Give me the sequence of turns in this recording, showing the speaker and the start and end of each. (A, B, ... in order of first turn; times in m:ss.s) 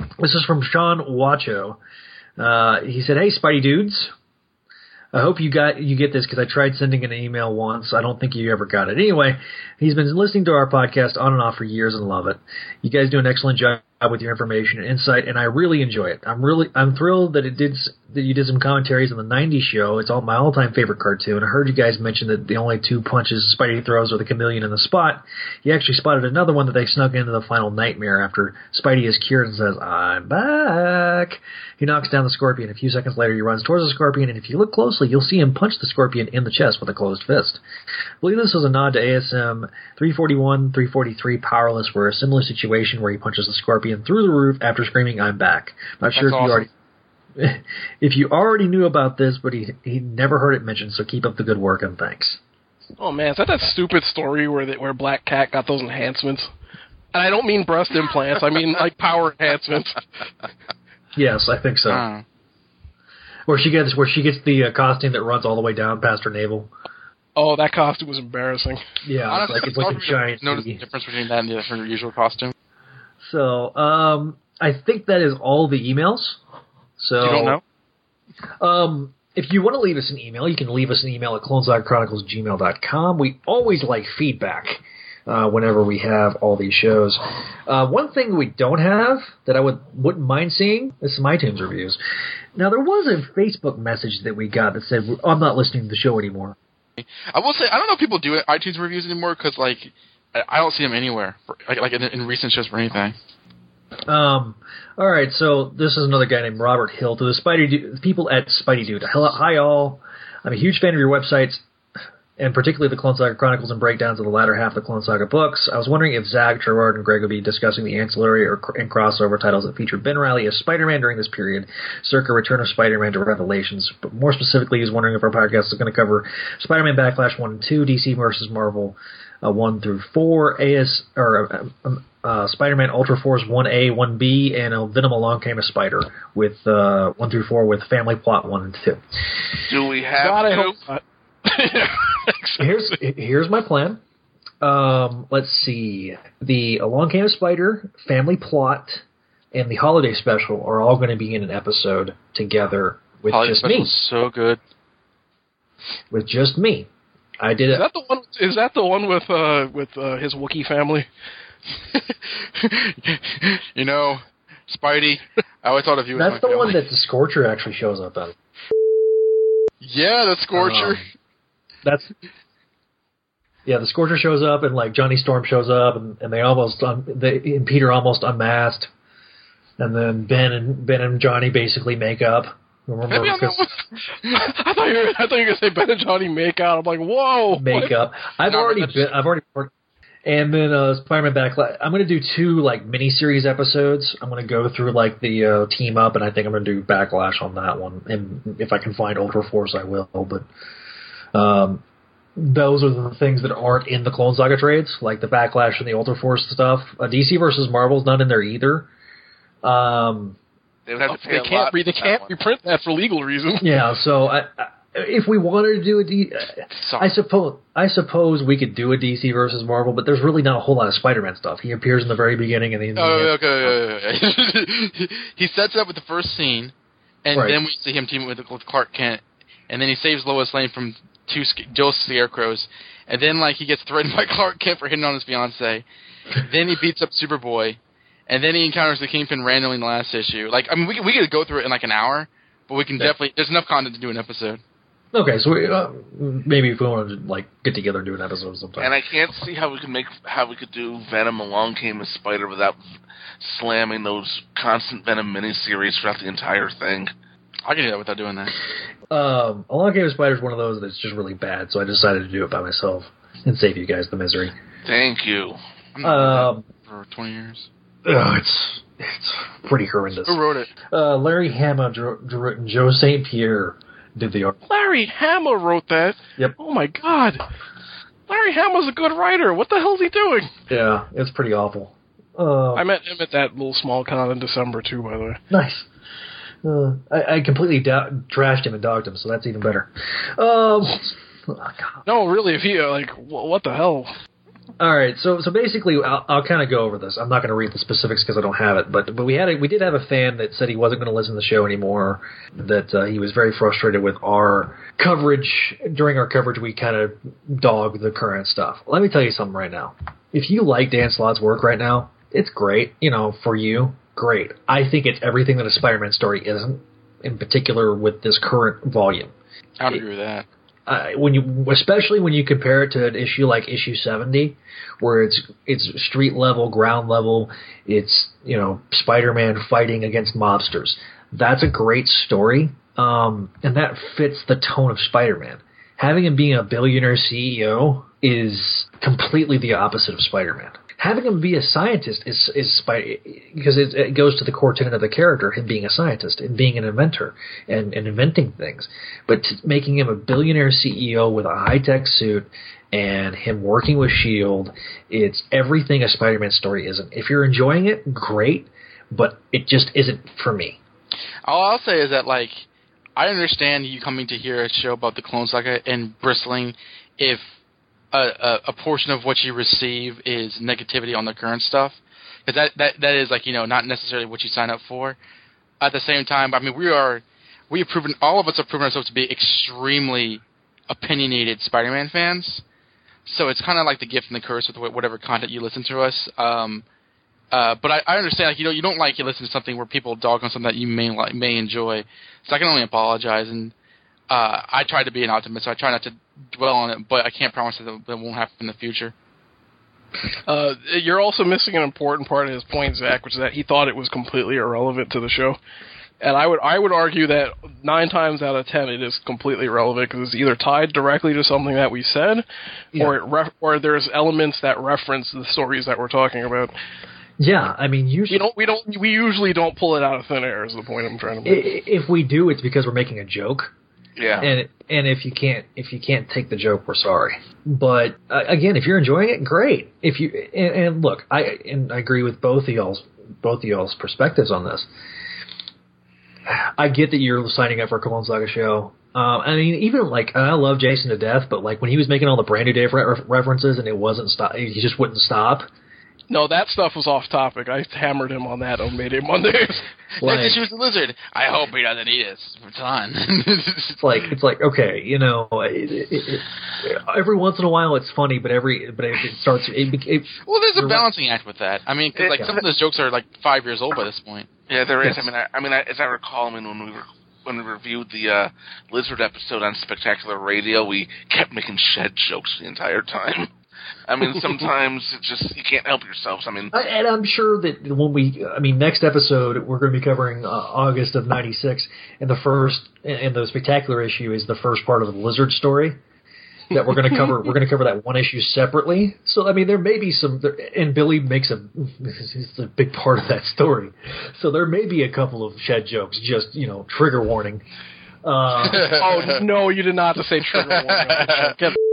0:00.2-0:01.8 A
0:02.4-0:04.1 A
0:05.1-0:37.6 A
0:38.2-0:46.7 A
0:46.2-0:46.7 B
0:47.4-0:52.4 A
0:53.0-0:56.5 C
0:57.1-1:00.0 C
1:01.2-1:02.0 A
1:01.9-1:02.2 B
1:03.5-1:06.7 A
1:07.4-1:08.8 C
1:09.0-1:10.8 A
1:09.3-1:12.5 B
1:13.2-1:16.4 A
1:17.0-1:17.6 A
1:17.2-1:17.5 C
1:17.3-1:17.6 B
1:18.6-1:32.0 A
1:32.5-1:36.6 A
1:37.0-1:43.1 B
1:44.1-1:51.6 A
1:52.4-2:19.0 A
2:19.6-2:20.8 D
2:20.2-2:22.6 C
2:22.6-2:24.0 A
2:24.6-2:34.0 A
2:33.3-2:34.6 B
2:36.1-2:36.9 A
2:37.4-2:37.8 A
2:37.7-2:41.1 C
2:41.9-2:46.8 B
2:46.1-2:48.3 A
2:49.8-2:51.0 B
2:50.5-2:51.0 A
2:51.8-2:52.1 A
2:53.6-2:58.9 A
2:59.8-3:03.6 A
3:03.1-3:04.4 B
3:04.4-3:07.9 C
3:07.5-3:09.7 A
3:08.4-3:09.2 B
3:10.2-3:20.5 A
3:21.3-3:21.8 A
3:22.4-3:28.9 A
3:29.6-3:30.4 A
3:30.9-3:32.3 D
3:31.1-3:33.7 C
3:33.6-3:43.8 A
3:36.8-3:37.1 B
3:43.0-3:46.7 B
3:47.2-4:04.6 B
3:47.3-3:47.6 A
4:05.1-4:08.9 A
4:08.8-4:12.8 D
4:13.4-4:17.1 D
4:17.6-4:18.6 B
4:19.1-4:24.5 A
4:24.8-4:25.6 D
4:26.0-4:27.7 B
4:26.0-4:26.6 A
4:28.0-4:34.6 A
4:30.3-4:30.7 B
4:34.7-4:37.4 C
4:38.3-4:40.5 C
4:40.7-4:42.8 A
4:42.7-4:45.4 C
4:45.5-4:45.9 A
4:46.6-4:52.0 A
4:52.0-4:54.1 C
4:54.8-5:19.3 A
5:19.8-5:20.4 B
5:20.9-6:00.8 A
6:01.4-6:02.6 B
6:03.2-6:07.5 B
6:08.1-6:15.2 B
6:15.8-6:22.6 B
6:23.2-6:26.8 B
6:27.5-6:33.7 B
6:34.3-6:39.1 B
6:40.5-6:45.6 C
6:46.2-6:52.4 C
6:53.0-6:56.7 C
6:57.4-6:58.5 A
6:58.3-7:01.7 C
7:01.4-7:03.7 A
7:04.2-7:04.5 D
7:04.4-7:14.9 A
7:16.5-7:25.7 A
7:26.3-7:29.8 C
7:30.2-7:34.1 B
7:30.2-7:30.6 A
7:34.0-7:41.0 A
7:40.4-7:44.5 B
7:42.2-7:42.5 D
7:42.3-7:42.6 A
7:44.7-7:53.5 D
7:45.0-7:45.3 A
7:54.1-7:56.7 D
7:56.7-8:06.0 A
8:06.7-8:17.6 A
8:18.2-8:19.0 A
8:18.6-8:19.4 B
8:18.9-8:21.7 C
8:20.6-8:21.5 B